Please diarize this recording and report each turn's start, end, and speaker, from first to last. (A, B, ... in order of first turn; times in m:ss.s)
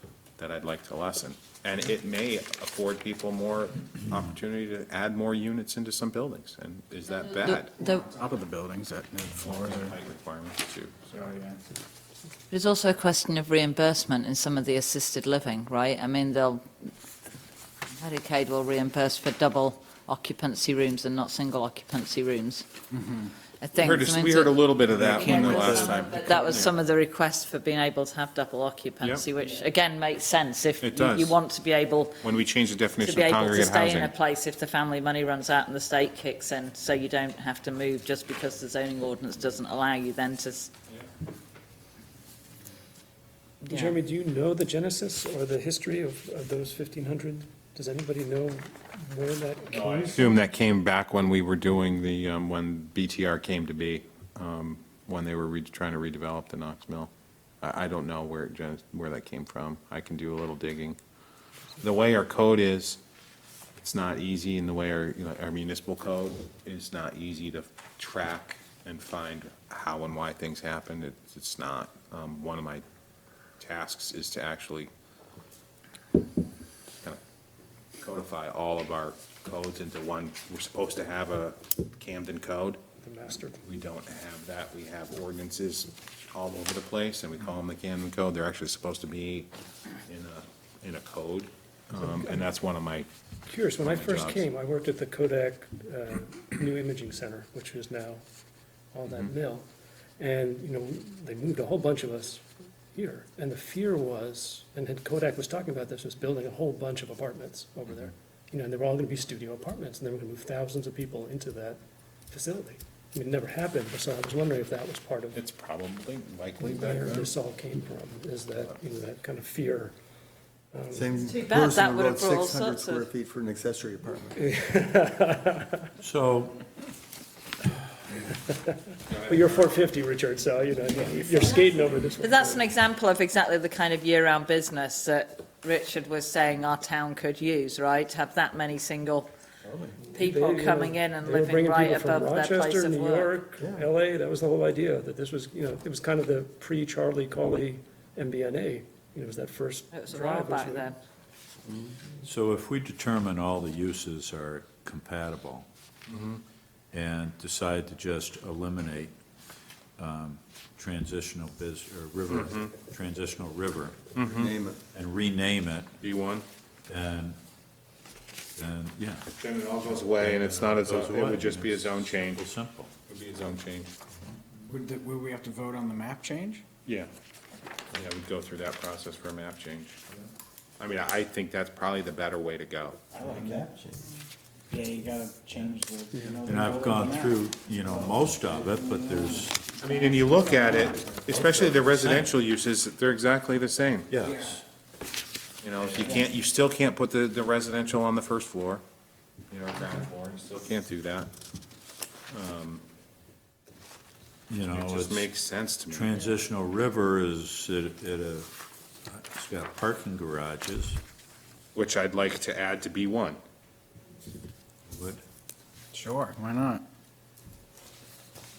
0:00.4-0:07.7 A
0:07.1-0:08.1 B
0:07.8-0:10.0 C
0:09.4-0:11.2 A
0:11.1-0:11.6 C
0:12.5-0:16.7 B
0:18.0-0:22.6 B
0:22.9-0:23.3 C
0:23.6-0:32.3 B
0:23.8-0:26.7 A
0:25.0-0:25.8 C
0:25.2-0:26.0 D
0:30.8-0:31.4 A
0:32.2-0:34.1 A
0:33.0-0:40.7 B
0:43.6-0:44.0 B
0:43.6-0:50.5 E
0:49.7-0:57.1 A
0:57.6-1:01.0 A
1:01.8-1:03.0 A
1:03.8-1:12.8 A
1:13.6-1:14.9 A
1:18.0-1:22.8 A
1:23.0-1:23.6 E
1:23.6-1:29.5 A
1:30.0-1:33.1 A
1:32.1-1:32.4 E
1:33.5-1:38.2 E
1:33.8-1:34.5 A
1:38.9-1:39.7 E
1:40.2-1:51.8 E
1:52.3-1:55.4 E
1:55.3-1:57.3 A
1:56.6-2:00.0 E
2:00.7-2:01.2 E
2:00.9-2:04.4 D
2:01.2-2:03.1 B
2:04.4-2:05.9 E
2:06.0-2:06.6 F
2:09.1-2:09.8 A
2:09.2-2:12.7 E
2:11.0-2:11.6 C
2:12.2-2:19.3 B
2:19.6-2:20.0 D
2:20.1-2:31.0 E
2:20.2-2:23.4 B
2:23.6-2:23.9 D
2:29.9-2:31.0 B
2:31.6-2:32.0 D
2:32.2-2:35.7 F
2:36.1-2:36.4 A
2:36.9-2:39.2 F
2:40.0-2:44.1 F
2:42.3-2:42.7 A
2:44.2-2:44.5 A
2:44.3-2:44.8 D
2:44.9-2:46.0 F
2:46.0-2:46.4 A
2:46.9-2:47.4 F
2:48.6-2:52.9 F
2:49.4-2:52.5 A
2:53.1-2:53.9 A
2:54.7-2:56.6 C
2:56.8-2:57.1 A
2:57.9-3:00.0 A
3:00.8-3:03.0 A
3:03.1-3:03.8 C
3:03.3-3:03.9 D
3:04.7-3:11.2 C
3:06.4-3:09.6 F
3:09.8-3:14.1 A
3:12.0-3:12.4 F
3:14.1-3:14.6 F
3:14.2-3:14.6 C
3:15.6-3:18.8 A
3:15.9-3:16.3 C
3:19.5-3:21.3 A
3:22.3-3:22.8 A
3:24.5-3:25.3 F
3:24.7-3:26.2 A
3:25.9-3:28.5 F
3:29.1-3:31.0 F
3:31.8-3:33.4 A
3:34.9-3:35.2 F
3:35.9-3:36.9 C